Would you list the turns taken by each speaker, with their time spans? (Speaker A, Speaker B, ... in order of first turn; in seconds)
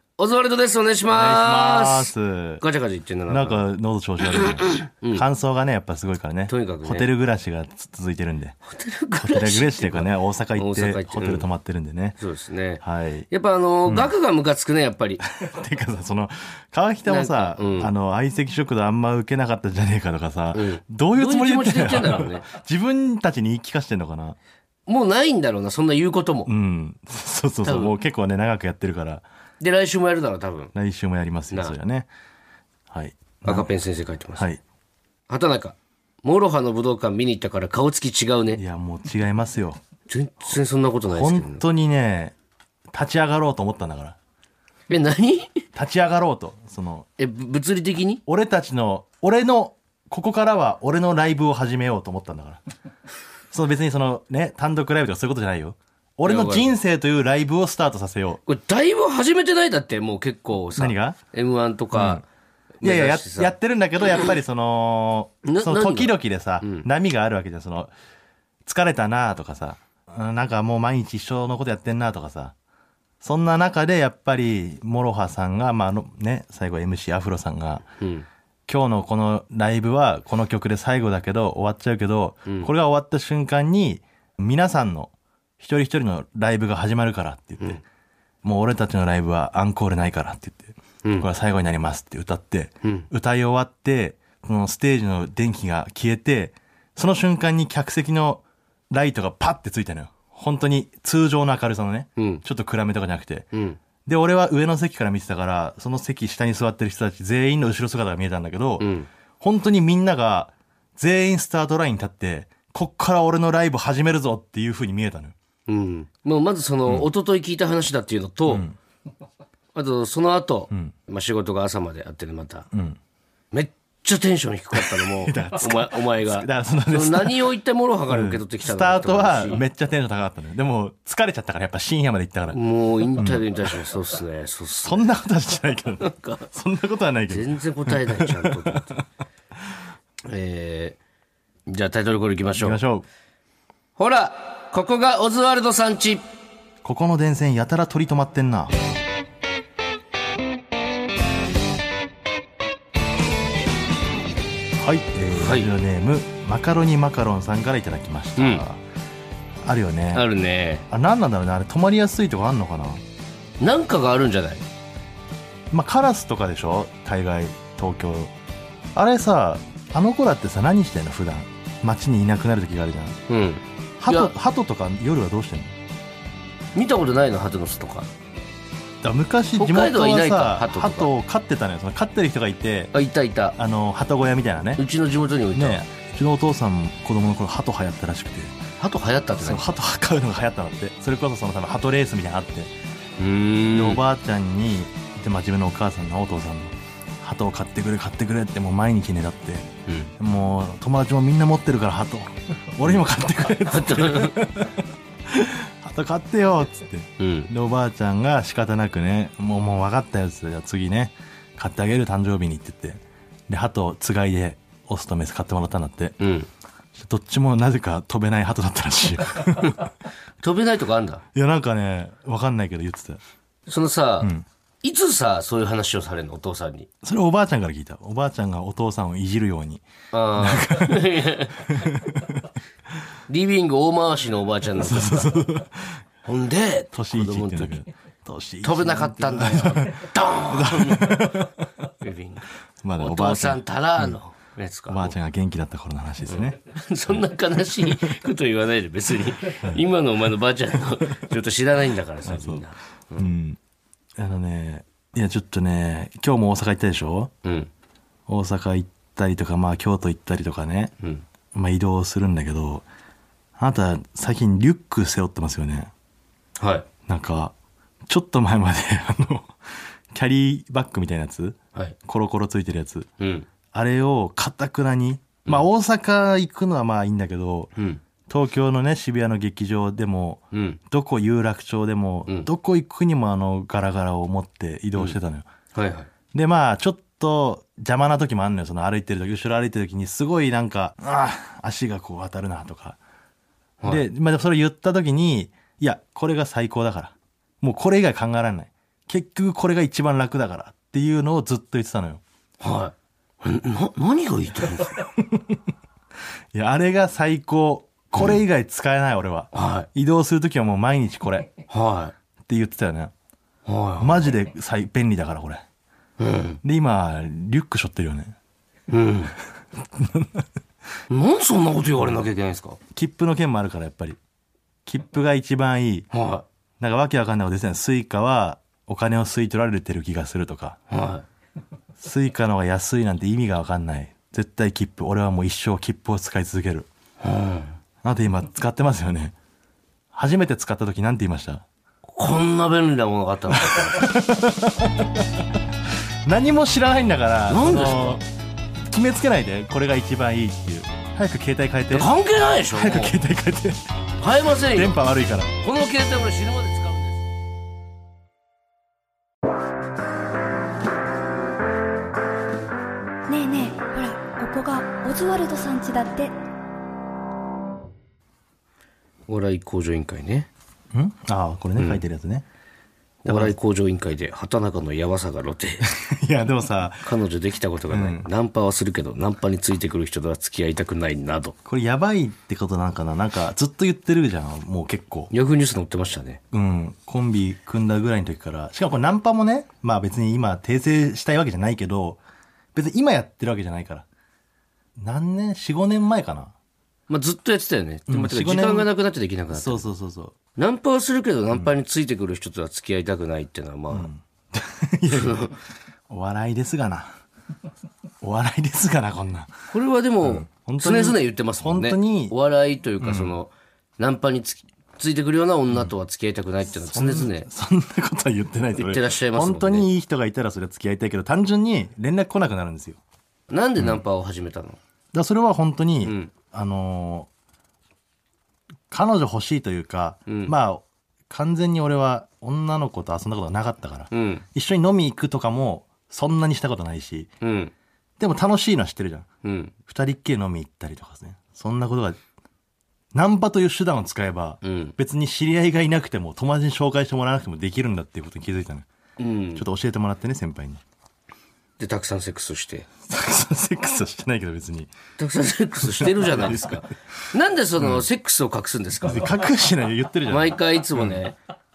Speaker A: 0.2-3.6, 4.8-5.3, 6.5-7.1, 8.7-11.5, 12.2-15.2, 17.1-17.9, 20.5-22.4, 24.9-26.5, 27.6-27.9, 29.6-30.7, 33.4-34.5, 35.3-38.6, 40.1-41.6, 44.9-45.7, 47.2-48.2, 56.2-56.7, 58.5-62.2, 62.8-63.5, 65.4-66.9, 78.0-78.3, 102.2-102.4, 103.5-103.8, 108.8-109.1, 115.7-118.7, 119.7-122.7, 123.5-129.6, 132.5-135.1, 136.0-136.5, 137.3-139.0, 140.2-141.0, 141.7-142.8, 144.0-146.2, 155.4-155.7, 158.4-158.7, 160.1-160.8, 163.6-164.7, 173.3-174.3, 176.8-178.1, 179.6-181.1, 182.9-183.6, 184.8-185.8, 188.8-189.7, 193.2-194.0, 199.9-200.1, 203.7-204.4, 207.2-207.5, 216.2-216.5, 219.6-219.9, 220.4-221.2, 223.7-224.3, 224.8-226.9, 230.1-231.7, 233.3-235.3, 236.2-237.8, 238.6-241.5, 242.0-245.1, 246.3-253.3, 257.4-257.7, 266.6-266.9, 273.2-273.5, 280.5-280.8, 285.8-286.1, 302.6-305.0, 309.5-309.9, 311.7-312.1, 313.7-314.3, 316.2-316.6, 318.9-319.3, 321.1-322.8, 326.1-326.4, 330.9-331.2, 337.2-337.8, 342.1-344.0, 347.5-348.2, 351.9-353.1, 354.2-355.0, 355.6-357.2, 369.3-370.5, 371.8-372.0, 373.2-375.9, 377.1-381.6, 385.3-386.4, 397.1-399.9, 400.6-404.1, 405.1-405.5, 409.7-417.5, 418.8-419.9, 423.5-424.8, 426.0-426.3, 430.3-430.5, 434.1-434.4, 437.4-437.7, 439.4-439.7, 444.6-444.9, 449.2-449.6, 451.8-452.9, 455.2-459.4, 460.3-461.4
Speaker B: 1.1-2.6, 3.3-8.6, 9.2-12.2, 12.8-13.3, 13.9-14.1, 15.2-24.4, 26.5-29.2, 30.8-32.1, 32.9-33.7, 38.5-39.8, 41.1-42.4, 42.9-44.2, 45.7-47.1, 48.3-52.6, 53.5-58.4, 60.8-61.2, 61.9-62.2, 62.8-67.9, 68.7-72.5, 73.2-77.8, 78.7-87.8, 88.4-103.5, 104.0-108.9, 109.4-115.3, 118.5-118.8, 120.7-121.0, 122.7-123.0, 124.7-127.4, 128.1-132.6, 133.2-133.5, 134.8-139.0, 142.6-143.1, 146.8-148.8, 154.8-158.8, 159.6-160.3, 160.9-163.0, 165.7-168.3, 168.9-173.2, 174.0-175.8, 179.0-182.9, 183.6-184.8, 185.5-188.6, 189.4-192.7, 193.7-216.2, 216.9-219.8, 221.3-223.2, 227.0-229.8, 230.4-232.4, 234.8-236.0, 236.9-241.7, 242.8-244.2, 244.9-246.6, 252.2-252.7, 253.2-253.6, 254.2-257.3, 258.3-260.9, 261.5-262.9, 263.6-265.9, 267.1-267.5, 268.1-269.5, 270.1-273.1, 273.7-277.7, 278.3-285.5, 286.3-293.0, 293.9-302.2, 306.5-311.5, 312.5-313.1, 314.0-315.6, 316.6-318.4, 319.9-320.4, 322.9-324.2, 324.9-326.1, 326.8-330.8, 332.0-336.9, 338.0-339.3, 340.1-341.6, 343.6-345.3, 346.2-348.2, 348.9-352.1, 352.7-353.8, 354.7-355.5, 370.9-372.5, 373.3-373.5, 375.8-377.1, 377.9-378.3, 381.6-385.3, 386.5-392.2, 392.8-394.1, 395.0-396.5, 398.1-398.9, 399.5-400.4, 403.9-405.6, 406.1-407.2, 408.2-409.5, 410.2-412.4, 413.0-413.4, 416.7-423.0, 425.1-427.3, 428.9-437.3, 438.2-439.3, 439.9-442.2, 443.1-448.9, 449.6-450.8, 453.1-454.9, 456.0-456.9, 457.8-458.1, 459.1-461.2
Speaker C: 363.3-366.3